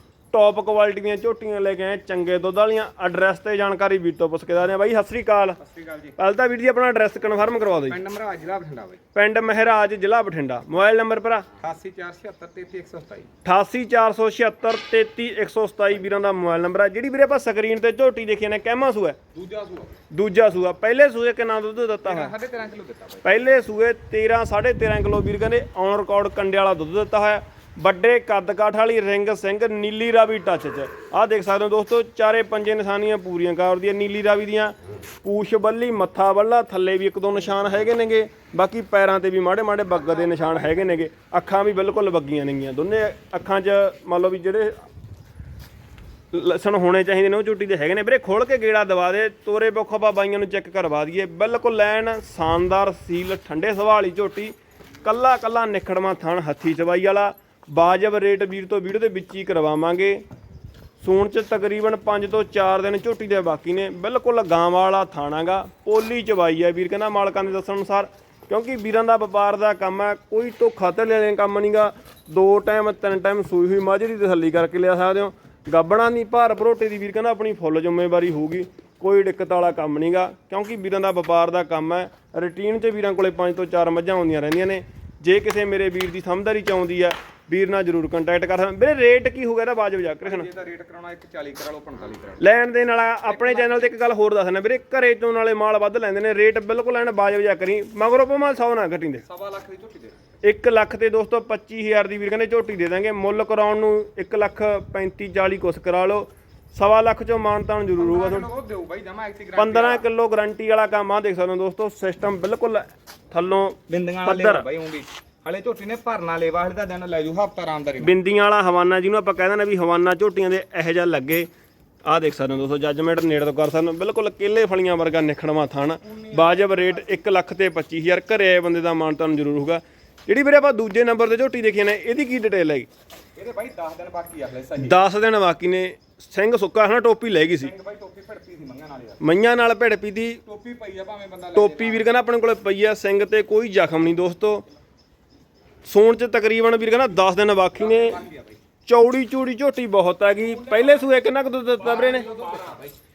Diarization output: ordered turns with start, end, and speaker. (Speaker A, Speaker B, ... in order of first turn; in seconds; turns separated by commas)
Speaker A: 0.3-5.6, Speaker B: 5.6-6.2, Speaker A: 6.2-8.0, Speaker B: 7.9-9.0, Speaker A: 9.1-11.5, Speaker B: 11.6-13.3, Speaker A: 13.4-19.2, Speaker B: 19.3-19.9, Speaker A: 20.1-22.3, Speaker B: 22.0-23.2, Speaker A: 23.2-44.8, Speaker B: 39.9-41.0, Speaker A: 46.3-60.2, Speaker A: 61.0-90.5, Speaker B: 90.2-92.4, Speaker A: 92.4-99.2, Speaker B: 93.3-93.9, Speaker B: 99.2-100.2, Speaker A: 100.4-108.5, Speaker B: 108.0-110.1, Speaker A: 109.6-114.7, Speaker B: 113.9-118.1, Speaker A: 118.0-121.5, Speaker A: 122.1-132.9, Speaker B: 126.0-127.2, Speaker B: 133.4-135.0, Speaker A: 134.8-137.7, Speaker B: 137.6-139.2, Speaker A: 139.2-140.4, Speaker B: 140.5-142.1, Speaker A: 141.6-144.6, Speaker A: 145.8-148.2, Speaker B: 147.8-148.6, Speaker A: 148.9-152.3, Speaker B: 150.6-151.0, Speaker B: 151.8-153.0